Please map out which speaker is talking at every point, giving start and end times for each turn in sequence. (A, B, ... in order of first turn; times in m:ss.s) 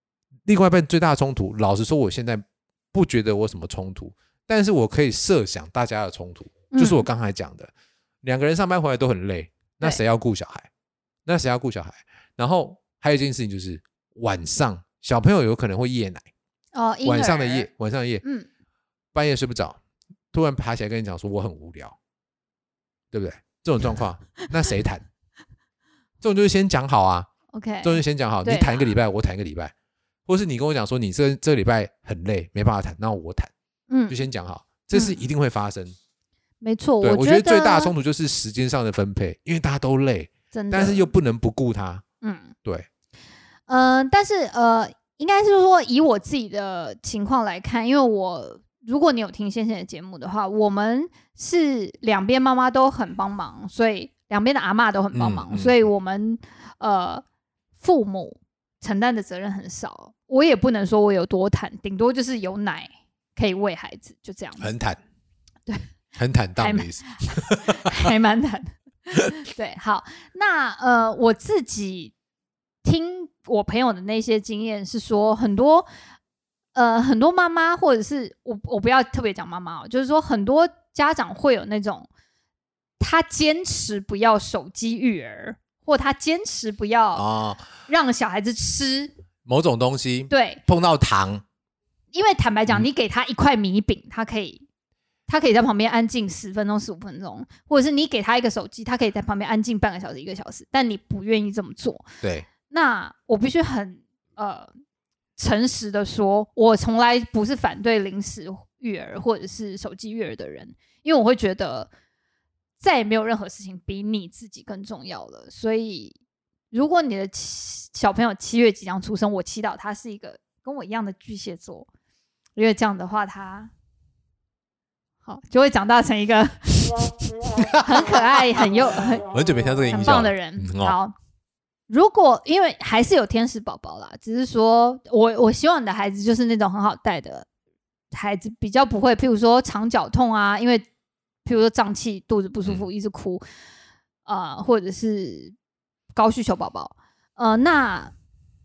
0:00.4-0:07.7 A
0:06.7-0:07.0 B
0:08.2-0:10.7 A
0:11.2-0:16.3 A
0:16.7-0:17.7 B
0:17.0-0:18.2 A
0:19.1-0:19.8 A
0:20.3-0:22.0 A
0:23.1-0:25.0 A
0:26.2-0:27.3 A
0:27.5-0:28.9 B
0:27.8-0:29.7 A
0:30.3-0:33.5 A
0:33.9-0:34.2 B
0:34.1-0:36.0 A
0:34.9-0:35.2 B
0:36.6-0:37.9 B
0:37.0-0:42.0 A
0:40.5-0:41.1 B
0:42.2-0:42.5 B
0:43.7-0:57.2 B
0:55.1-0:55.7 A
0:57.8-1:04.7 B
1:04.6-1:05.0 A
1:06.2-1:07.8 A
1:06.6-1:12.1 B
1:12.8-1:15.9 B
1:16.7-1:22.1 B
1:23.0-1:27.2 B
1:27.1-1:27.6 A
1:27.9-1:29.1 B
1:29.4-1:31.4 A
1:30.3-1:30.6 B
1:32.1-1:34.6 B
1:35.3-1:42.0 B
1:42.2-1:42.5 A
1:42.7-1:44.7 B
1:45.4-1:51.9 B
1:52.8-1:56.2 B
1:56.7-2:01.9 B
2:02.6-2:03.7 B
2:05.2-2:07.2 B
2:07.6-2:08.2 A
2:07.7-2:09.2 B
2:09.3-2:11.0 A
2:09.9-2:11.1 B
2:11.9-2:17.5 B
2:18.1-2:20.8 B
2:21.4-2:23.4 B
2:24.2-2:25.5 B
2:26.1-2:28.1 B